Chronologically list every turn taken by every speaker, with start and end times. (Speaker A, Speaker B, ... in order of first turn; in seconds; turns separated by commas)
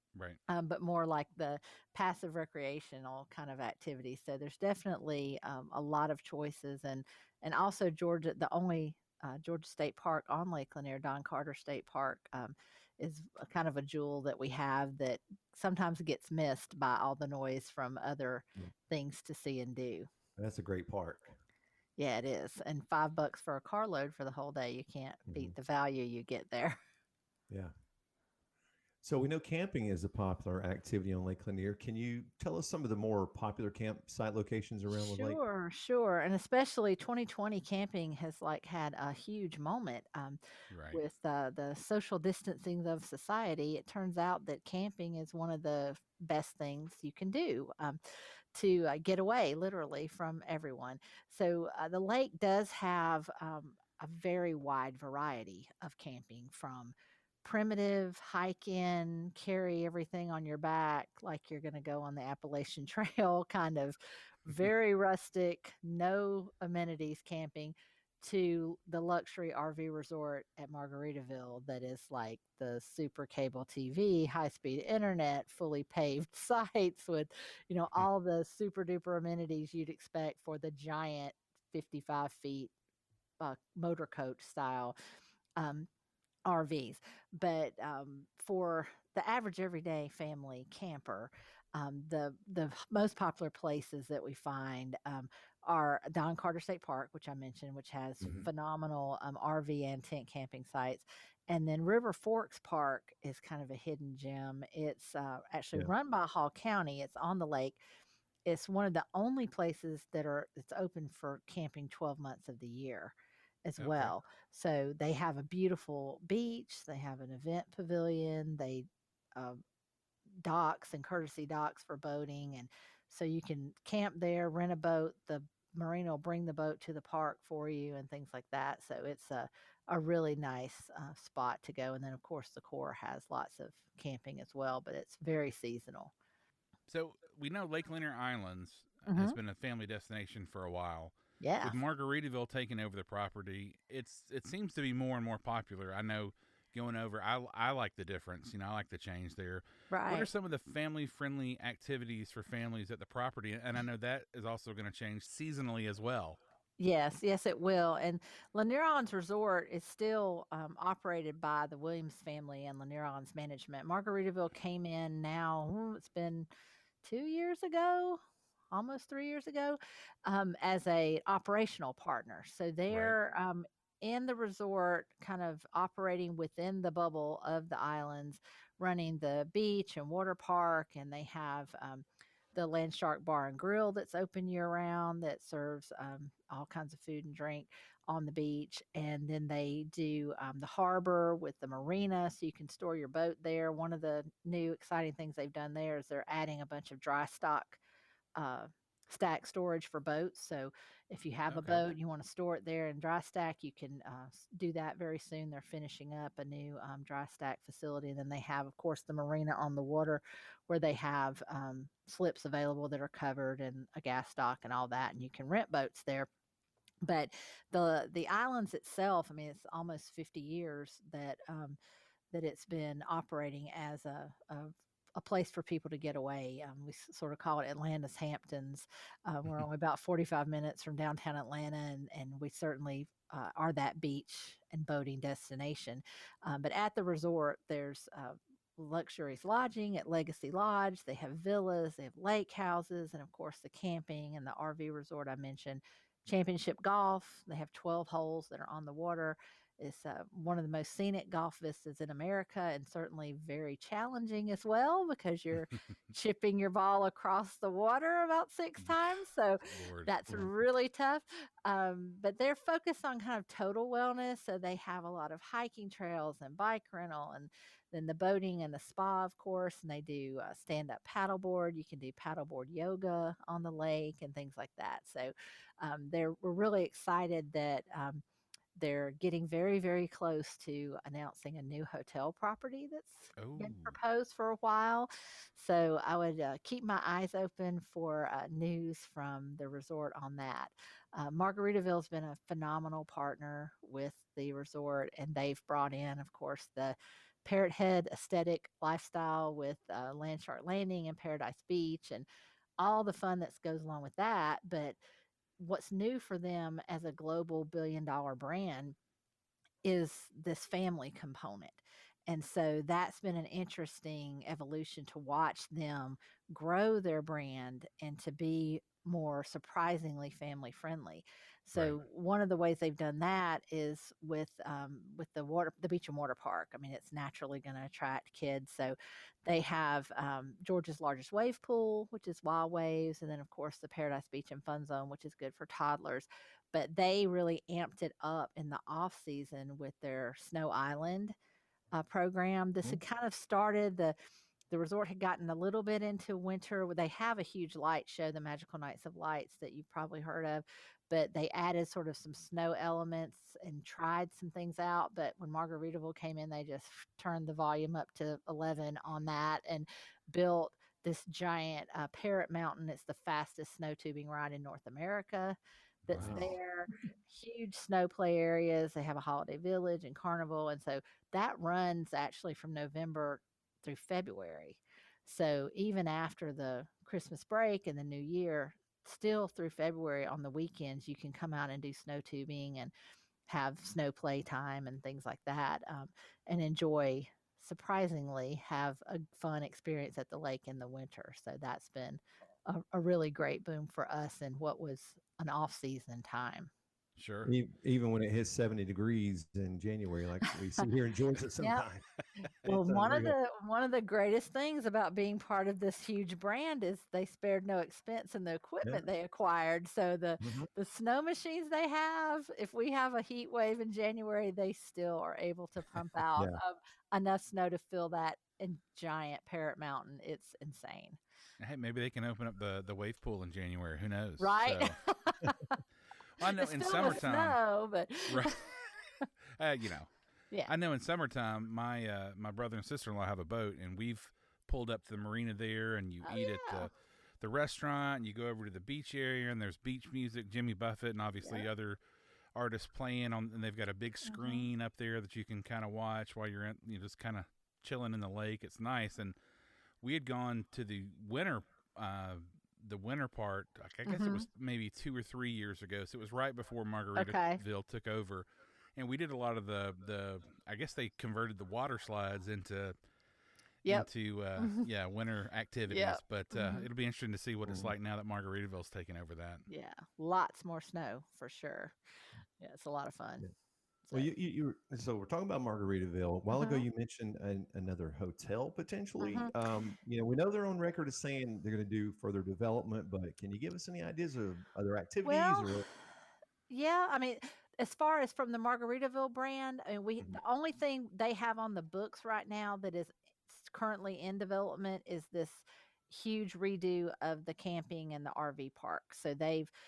Speaker A: 0.5-20.1, Speaker B: 20.4-21.4, Speaker A: 22.0-26.8, Speaker B: 25.3-25.5, Speaker B: 29.0-35.4, Speaker A: 34.9-40.4, Speaker C: 40.7-41.0, Speaker A: 40.9-48.0, Speaker A: 48.5-82.7, Speaker A: 83.4-84.9, Speaker A: 85.6-85.9, Speaker A: 86.5-107.8, Speaker A: 108.5-113.1, Speaker A: 113.7-119.6, Speaker C: 113.8-114.1, Speaker A: 120.4-136.1, Speaker C: 136.9-156.4, Speaker A: 139.1-139.4, Speaker A: 141.4-141.8, Speaker A: 149.9-150.3, Speaker A: 156.8-166.5, Speaker A: 167.0-168.2, Speaker A: 168.7-197.8, Speaker C: 172.9-173.2, Speaker A: 198.4-216.3, Speaker C: 201.5-201.9, Speaker A: 217.0-221.8, Speaker A: 222.3-278.2, Speaker C: 259.7-260.5, Speaker A: 278.8-302.3, Speaker C: 283.4-284.0, Speaker A: 302.8-305.0, Speaker A: 305.6-308.9, Speaker A: 309.8-341.3, Speaker C: 321.7-322.0, Speaker A: 341.9-344.1, Speaker A: 344.7-382.9, Speaker C: 366.1-366.5, Speaker B: 366.2-366.5, Speaker A: 383.5-396.7, Speaker C: 397.2-397.5, Speaker B: 397.4-402.1, Speaker B: 402.6-403.4, Speaker A: 402.6-421.2, Speaker B: 410.4-410.7, Speaker C: 421.6-425.0, Speaker A: 424.4-425.8, Speaker C: 426.4-427.6, Speaker A: 426.5-428.6, Speaker C: 428.3-428.6, Speaker C: 429.6-430.1, Speaker C: 430.7-442.0, Speaker A: 436.2-436.9, Speaker A: 441.4-441.7, Speaker C: 442.6-449.3, Speaker A: 444.3-444.7, Speaker C: 450.0-462.9, Speaker A: 454.1-454.4, Speaker A: 457.2-457.6, Speaker C: 463.9-469.7, Speaker A: 464.6-464.9, Speaker A: 465.9-466.9, Speaker B: 467.7-467.9, Speaker A: 469.7-471.9, Speaker A: 472.6-473.5, Speaker B: 474.1-485.9, Speaker A: 476.5-476.9, Speaker A: 479.2-479.5, Speaker A: 485.2-485.8, Speaker A: 486.7-499.7